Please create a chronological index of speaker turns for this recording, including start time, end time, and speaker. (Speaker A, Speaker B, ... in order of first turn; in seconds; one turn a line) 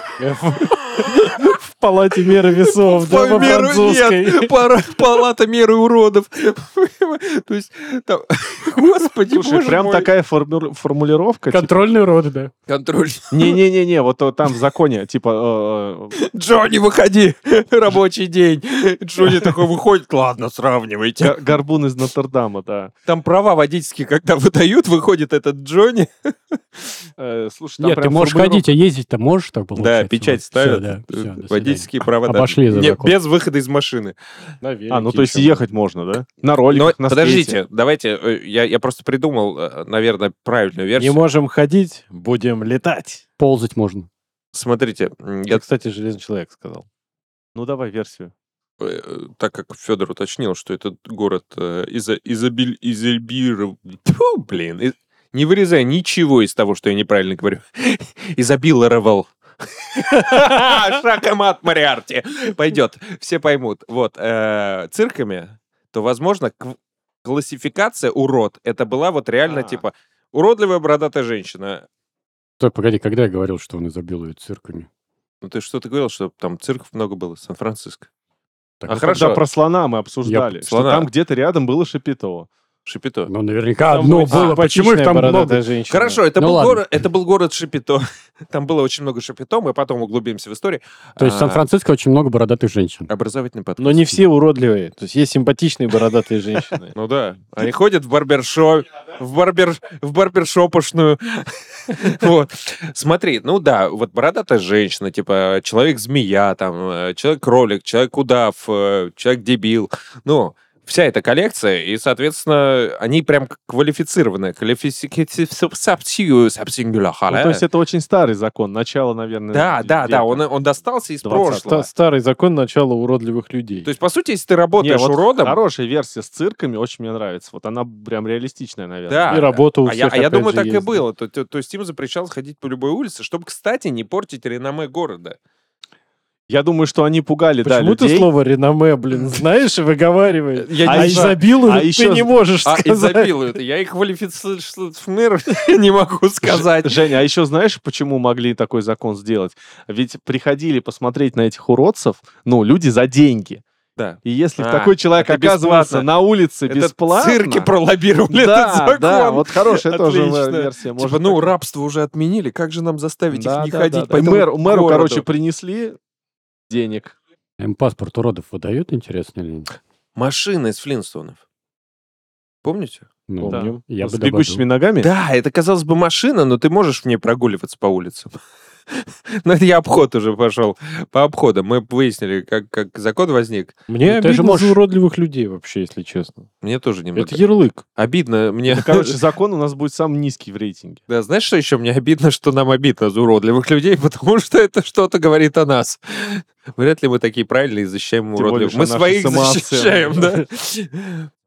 Speaker A: 0.2-4.5
Speaker B: 1.0-1.3
Speaker B: 2.7-10.1
Speaker C: 9.3-11.8
Speaker D: 11.5-12.5
Speaker B: 12.7-13.6
Speaker C: 13.3-16.2
Speaker B: 16.2-21.4
Speaker C: 21.2-22.9
Speaker B: 23.1-27.0
Speaker C: 27.2-28.7
Speaker D: 27.8-33.1
Speaker B: 29.8-34.1
Speaker A: 34.6-35.6
Speaker C: 34.9-37.6
Speaker B: 36.7-41.2
Speaker A: 41.0-43.2
Speaker D: 43.4-44.1
Speaker B: 44.5-45.6
Speaker A: 45.5-46.9
Speaker C: 47.5-48.3
Speaker B: 48.8-59.3
Speaker B: 60.0-71.9
Speaker C: 69.5-69.8
Speaker D: 72.6-74.9
Speaker B: 75.4-78.1
Speaker D: 78.8-79.3
Speaker C: 78.9-82.5
Speaker B: 78.9-79.4
Speaker D: 80.2-80.5
Speaker B: 80.7-81.1
Speaker B: 82.9-83.3
Speaker D: 83.3-85.6
Speaker A: 83.9-86.2
Speaker B: 84.1-84.6
Speaker B: 85.9-91.7
Speaker D: 86.3-87.0
Speaker D: 91.2-93.1
Speaker B: 93.1-94.2
Speaker A: 93.8-96.8
Speaker B: 96.9-117.6
Speaker C: 117.3-120.5
Speaker B: 119.5-121.9
Speaker C: 121.2-121.8
Speaker A: 121.3-123.9
Speaker B: 123.8-125.6
Speaker C: 124.8-129.6
Speaker B: 129.1-135.4
Speaker A: 129.3-131.0
Speaker C: 136.5-138.3
Speaker A: 137.6-143.4
Speaker B: 140.6-141.4
Speaker C: 140.8-142.3
Speaker B: 142.7-147.0
Speaker C: 146.4-153.6
Speaker B: 154.0-156.1
Speaker C: 154.2-157.7
Speaker B: 156.7-165.3
Speaker C: 158.3-161.5
Speaker C: 163.3-166.0
Speaker C: 166.7-167.2
Speaker D: 167.6-169.7
Speaker B: 170.2-171.4
Speaker B: 172.6-173.1
Speaker D: 173.3-174.6
Speaker A: 173.4-173.8
Speaker C: 173.5-175.1
Speaker B: 175.0-178.3
Speaker B: 178.9-183.8
Speaker A: 183.9-186.5
Speaker D: 184.1-184.8
Speaker B: 186.6-187.4
Speaker A: 187.2-187.8
Speaker B: 188.0-189.2
Speaker C: 188.7-191.0
Speaker B: 191.1-201.3
Speaker C: 198.3-200.4